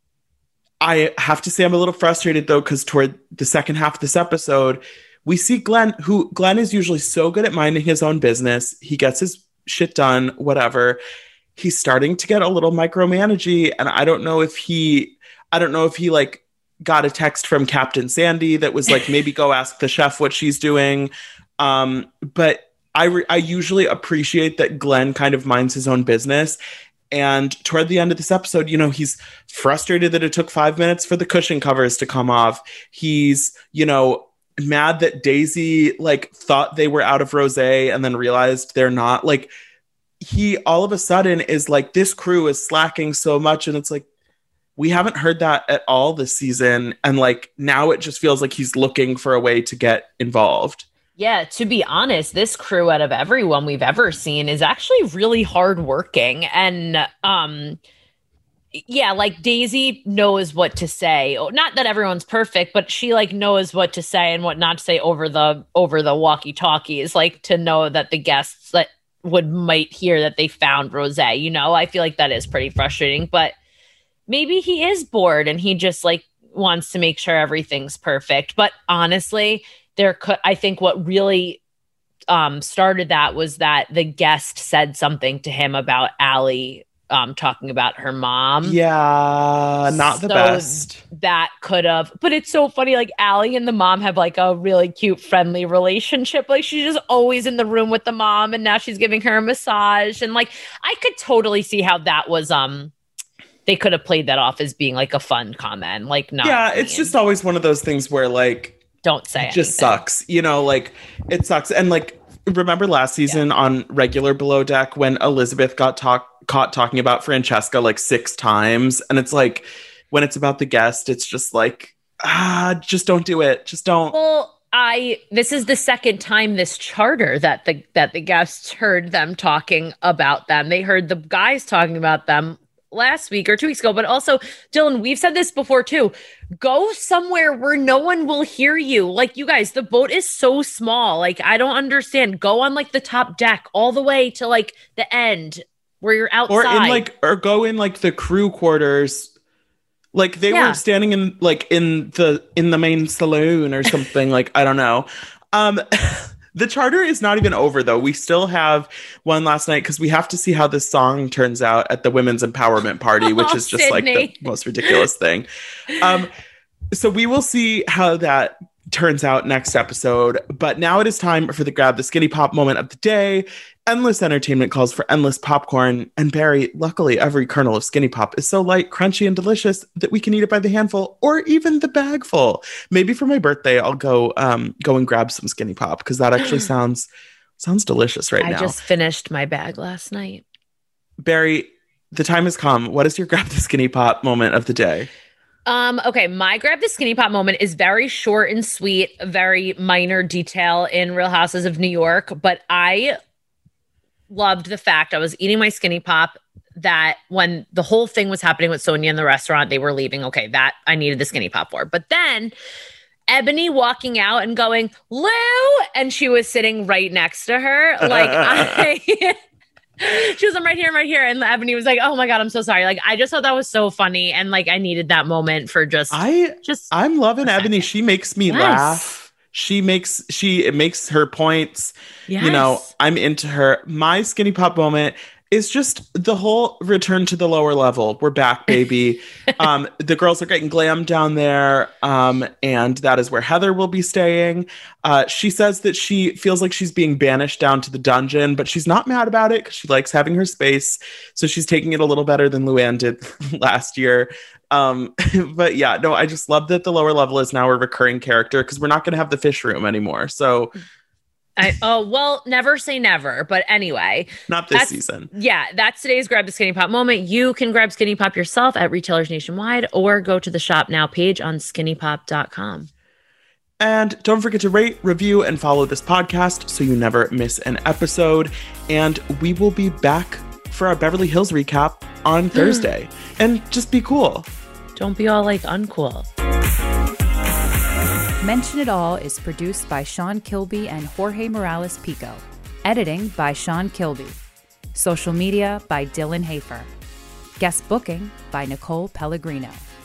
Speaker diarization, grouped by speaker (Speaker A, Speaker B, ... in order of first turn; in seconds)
Speaker A: 0.8-11.0, 11.6-26.6, 27.1-39.5, 40.2-44.0, 44.8-50.9, 88.6-91.0, 106.4-108.8, 109.4-124.1, 146.5-149.3, 150.1-166.3, 166.9-188.8, 191.2-195.1, 218.0-218.8, 226.1-260.7, 264.5-265.3, 273.8-284.5
Speaker B: 51.2-57.8, 58.7-73.5, 74.3-81.6, 82.3-88.8, 89.9-102.9, 103.7-107.1, 109.0-110.0, 124.1-147.1, 150.5-150.8, 163.2-165.0, 188.4-190.4, 195.7-203.2, 204.3-212.5, 213.3-219.3, 220.0-226.9, 227.4-227.9, 228.4-229.0, 232.3-232.9, 261.6-272.9, 282.5-282.9, 284.9-286.3
Speaker C: 288.4-294.4, 294.9-296.9, 297.6-299.8